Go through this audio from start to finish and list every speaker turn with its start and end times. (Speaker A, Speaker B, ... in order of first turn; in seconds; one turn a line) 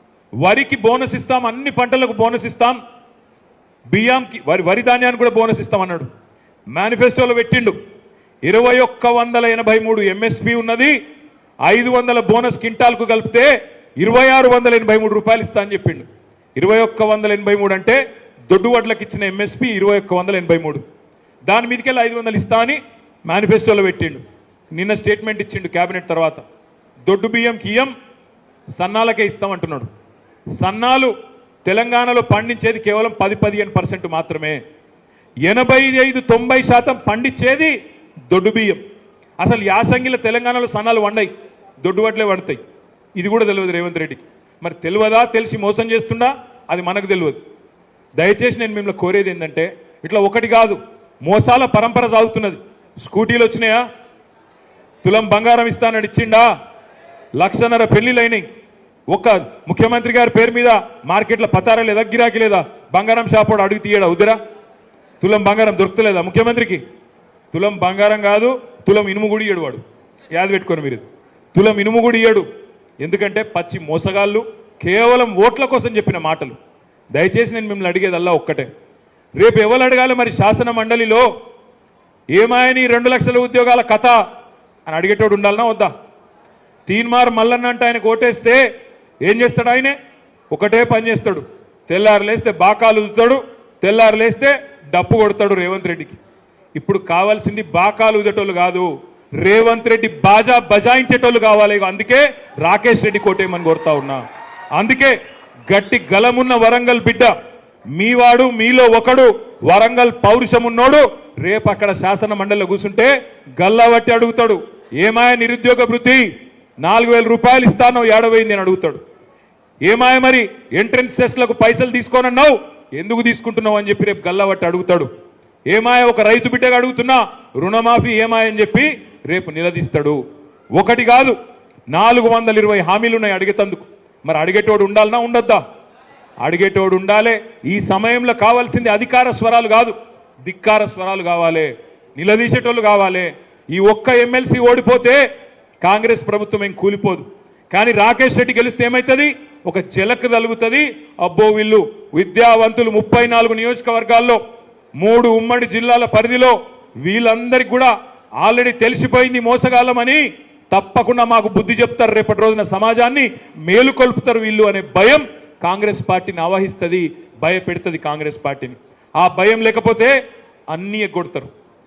Speaker A: 0.4-2.8
Speaker A: 3.9-6.1
Speaker A: 6.7-7.8
Speaker A: 8.4-10.9
Speaker A: 11.7-20.8
Speaker A: 21.5-24.2
Speaker A: 24.7-26.4
Speaker A: 27.1-27.9
Speaker A: 28.8-29.9
Speaker A: 30.6-31.1
Speaker A: 31.6-34.6
Speaker A: 35.4-37.7
Speaker A: 38.3-38.8
Speaker A: 39.4-41.3
Speaker A: 41.8-42.6
Speaker A: 43.2-47.4
Speaker A: 48.2-53.8
Speaker A: 55.0-56.5
Speaker A: 57.4-58.5
Speaker A: 59.1-64.4
Speaker A: 65.2-66.8
Speaker A: 67.5-72.4
Speaker A: 73.0-76.6
Speaker A: 77.1-78.7
Speaker A: 79.4-81.3
Speaker A: 82.3-84.2
Speaker A: 84.8-85.9
Speaker A: 86.9-88.6
Speaker A: 89.2-89.9
Speaker A: 90.5-96.2
Speaker A: 96.8-98.9
Speaker A: 99.4-104.2
Speaker A: 104.8-105.1
Speaker A: 105.7-107.3
Speaker A: 107.9-116.3
Speaker A: 116.8-119.0
Speaker A: 119.8-125.1
Speaker A: 125.7-130.2
Speaker A: 130.8-131.3
Speaker A: 131.9-135.6
Speaker A: 136.4-145.2
Speaker A: 145.8-154.4
Speaker A: 155.0-170.1
Speaker A: 170.7-171.5